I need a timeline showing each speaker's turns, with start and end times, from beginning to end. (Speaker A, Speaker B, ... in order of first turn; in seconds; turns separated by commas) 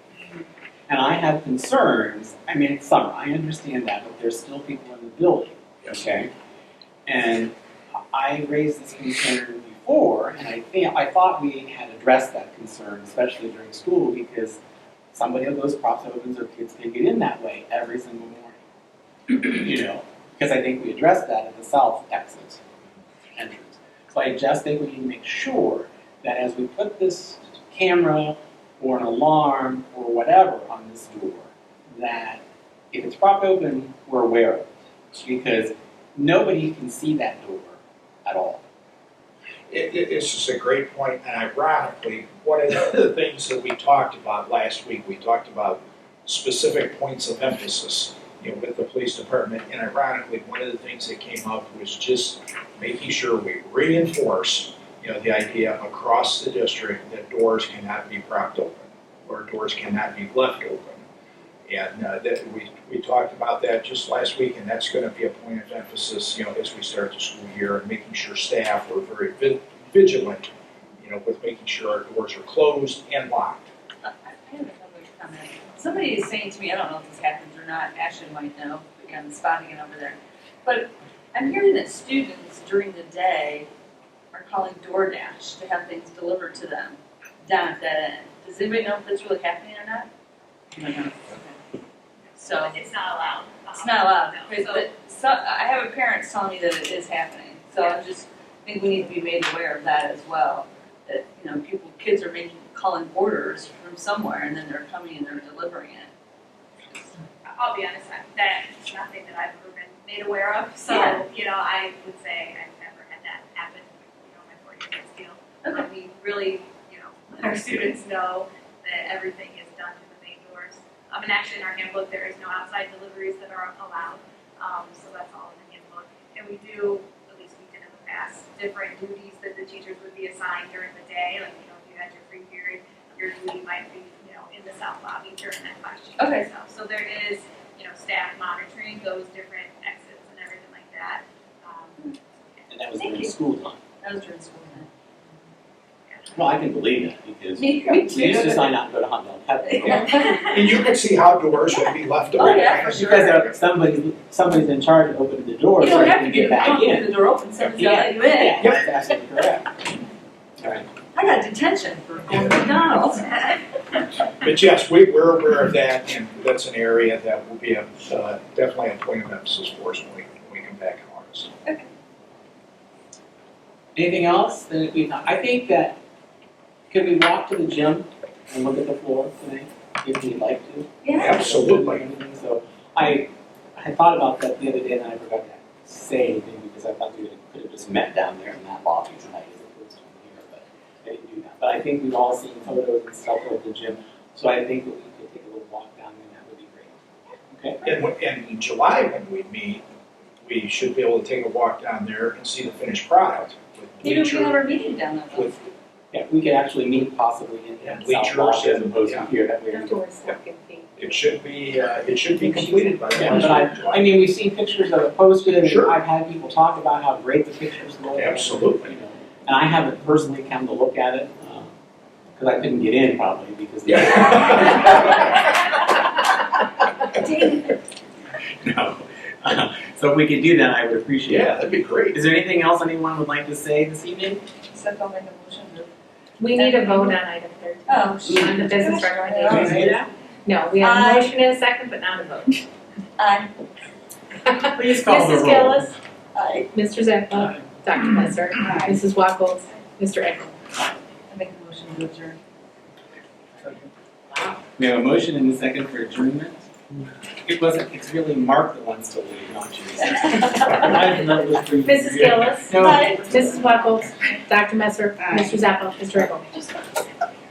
Speaker A: 0.9-6.3, Speaker A: 7.1-7.5, Speaker A: 8.1-14.6, Speaker A: 15.1-18.6, Speaker A: 19.3-22.6, Speaker A: 23.4-38.6, Speaker B: 39.7-61.1, Speaker B: 61.7-70.5, Speaker B: 71.0-73.7, Speaker C: 74.0-83.7, Speaker C: 84.3-90.1, Speaker C: 90.7-91.6, Speaker D: 92.3-94.9, Speaker C: 92.4-92.8, Speaker C: 93.7-106.1, Speaker C: 106.9-107.2, Speaker D: 107.5-142.2, Speaker C: 110.9-111.2, Speaker C: 136.2-136.5, Speaker A: 142.7-143.8, Speaker C: 143.0-143.3, Speaker C: 144.0-144.9, Speaker A: 146.3-150.5, Speaker C: 147.6-148.8, Speaker C: 149.7-150.6, Speaker B: 150.5-153.5, Speaker C: 152.4-153.5, Speaker A: 152.4-157.1, Speaker C: 155.8-158.7, Speaker A: 157.6-159.8, Speaker A: 160.6-160.9, Speaker C: 161.1-163.6, Speaker B: 164.4-171.5, Speaker A: 173.9-176.0, Speaker A: 176.9-197.9, Speaker C: 181.0-181.4, Speaker B: 181.2-182.1, Speaker B: 197.8-199.8, Speaker B: 200.4-204.7, Speaker C: 204.0-205.7, Speaker A: 206.1-210.0, Speaker B: 207.8-209.3, Speaker E: 209.7-210.9, Speaker B: 211.0-214.1, Speaker E: 212.4-213.5, Speaker A: 213.1-221.7, Speaker B: 215.6-216.0, Speaker B: 218.2-218.9, Speaker A: 222.4-225.7, Speaker B: 223.9-225.1, Speaker C: 227.2-227.8, Speaker A: 228.6-234.4, Speaker B: 231.3-232.2, Speaker C: 234.7-235.9, Speaker E: 236.4-242.6, Speaker C: 236.5-237.2, Speaker C: 237.9-240.1, Speaker A: 239.5-239.9, Speaker C: 240.8-241.3, Speaker C: 243.2-243.5, Speaker E: 244.4-245.9, Speaker A: 244.7-245.9, Speaker C: 246.3-246.7, Speaker E: 246.7-250.6, Speaker C: 248.6-248.9, Speaker C: 251.3-252.4, Speaker A: 254.8-256.7, Speaker A: 257.4-263.8, Speaker E: 261.8-266.6, Speaker C: 262.8-263.4